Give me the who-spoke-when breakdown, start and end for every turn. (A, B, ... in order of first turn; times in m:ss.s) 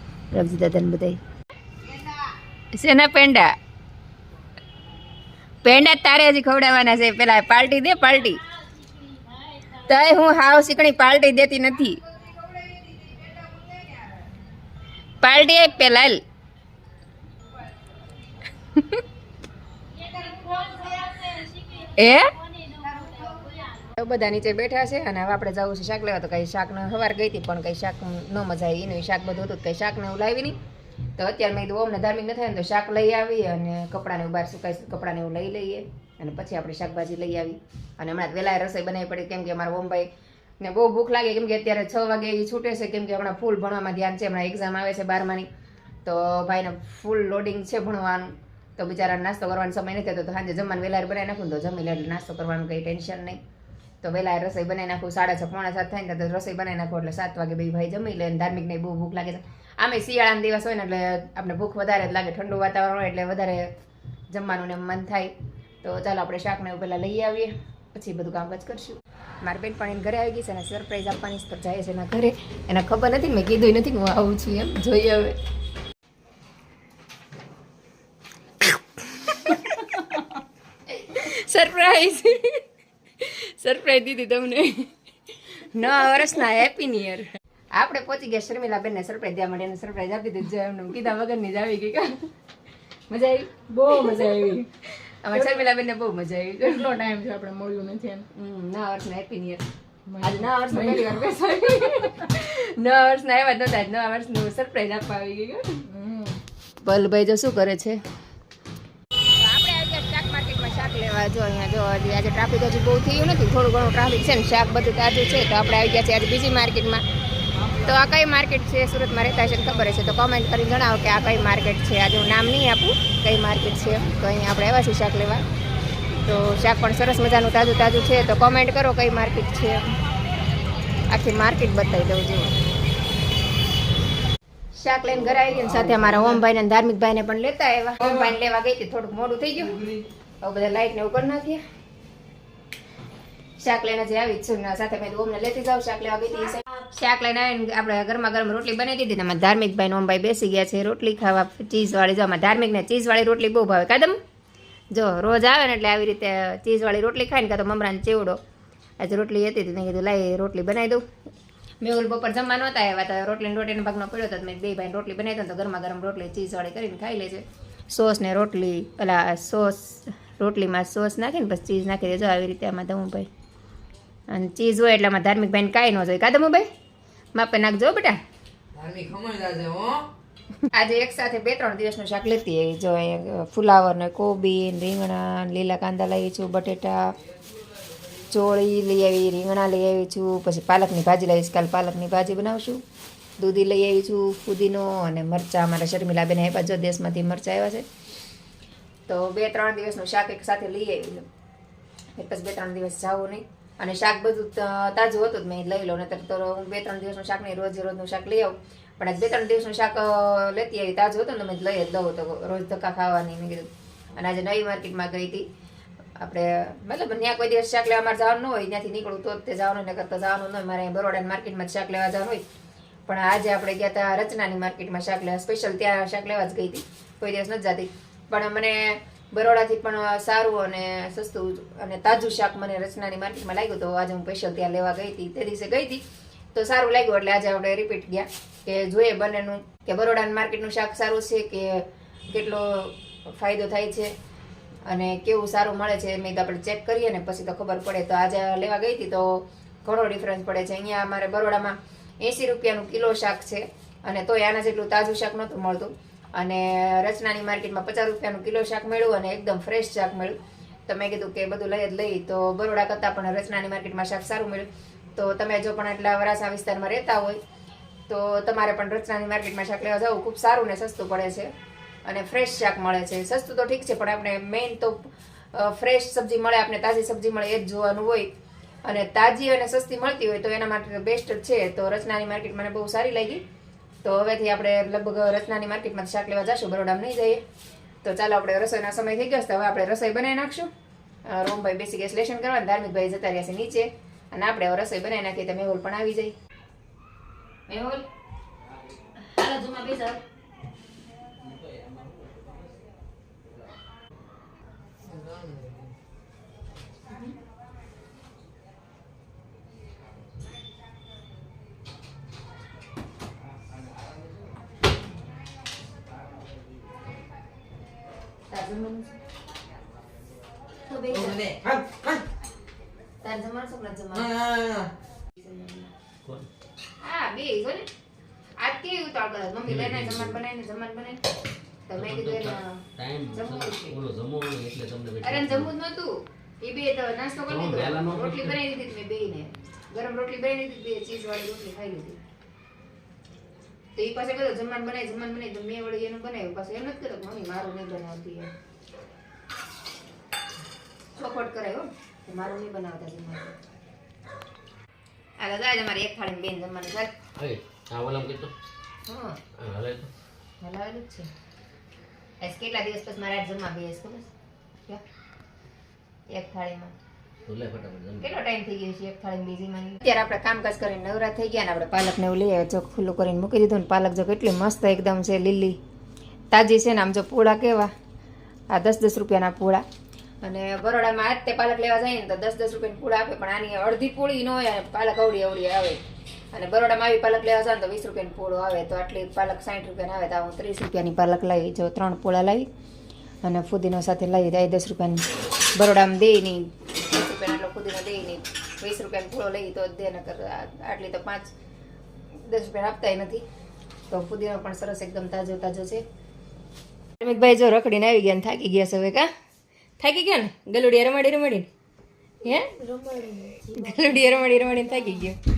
0:00.3-0:01.2 A
0:02.7-0:03.6 A
0:05.6-0:08.5 A
0:09.0-0:09.4 B
0:09.7-0:12.1 A
0:15.2-0:16.2 A
0:18.8-0:19.0 A
0:20.0-0:21.9 B
0:21.9-0:22.4 A
0:22.7-0:23.5 B
0:23.7-0:30.6 A
0:31.2-0:40.1 A
0:40.6-0:45.5 A
0:46.0-0:53.4 A
0:54.0-1:03.7 A
1:04.3-1:15.4 A
1:19.1-1:20.2 A
1:20.9-1:22.6 A
1:23.2-1:24.9 A
1:25.5-1:32.3 A
1:33.1-1:36.9 A
1:33.7-1:34.6 B
1:36.6-1:38.3 B
1:38.3-1:39.6 A
1:40.2-1:45.9 A
1:40.2-1:41.0 B
1:45.9-1:46.4 B
1:46.8-1:48.0 A
1:49.2-1:57.0 A
1:57.7-2:05.4 A
2:06.2-2:09.9 A
2:11.1-2:12.6 A
2:14.7-2:19.9 A
2:20.4-2:21.6 A
2:23.6-2:34.2 A
2:34.9-2:38.4 A
2:39.0-2:41.0 A
2:41.8-2:53.3 A
2:54.3-2:56.7 A
2:57.4-2:58.2 A
2:58.8-3:00.0 C
3:00.6-3:07.1 A
3:08.3-3:12.8 A
3:13.4-3:17.9 A
3:19.1-3:21.3 A
3:22.2-3:35.5 A
3:36.2-3:42.4 A
3:43.1-4:04.1 A
4:04.9-4:27.4 A
4:28.1-4:31.5 A
4:32.1-4:38.3 A
4:38.8-4:43.4 A
4:44.0-4:47.4 A
4:48.0-4:50.7 A
4:51.3-4:56.3 A
4:57.7-4:58.1 A
4:59.2-5:00.2 A
5:01.6-5:01.9 D
5:05.0-5:05.9 C
5:18.5-5:19.1 A
5:20.9-5:21.6 A
5:21.1-5:22.2 C
5:23.2-5:24.5 A
5:24.4-5:24.9 C
5:25.4-5:25.9 A
5:26.2-5:26.5 D
5:27.0-5:27.9 A
5:28.6-5:31.2 A
5:29.7-5:30.4 D
5:31.9-5:34.0 A
5:32.0-5:35.7 D
5:35.2-5:42.2 A
5:37.5-5:38.6 D
5:44.0-5:48.5 A
5:51.2-5:53.6 A
5:55.4-5:57.1 A
5:57.4-5:58.5 D
5:59.1-5:59.4 A
5:59.6-6:00.1 D
6:00.6-6:01.3 A
6:02.4-6:04.3 A
6:06.3-6:07.0 A
6:07.5-6:08.3 D
6:08.2-6:15.8 A
6:16.5-6:17.9 A
6:18.7-6:19.8 A
6:20.4-6:32.7 A
6:33.4-6:41.5 A
6:42.4-6:43.4 A
6:44.1-6:46.0 A
6:47.2-6:49.3 A
6:50.0-6:51.7 A
6:52.4-6:52.8 A
6:52.6-6:54.2 B
6:53.7-6:55.4 A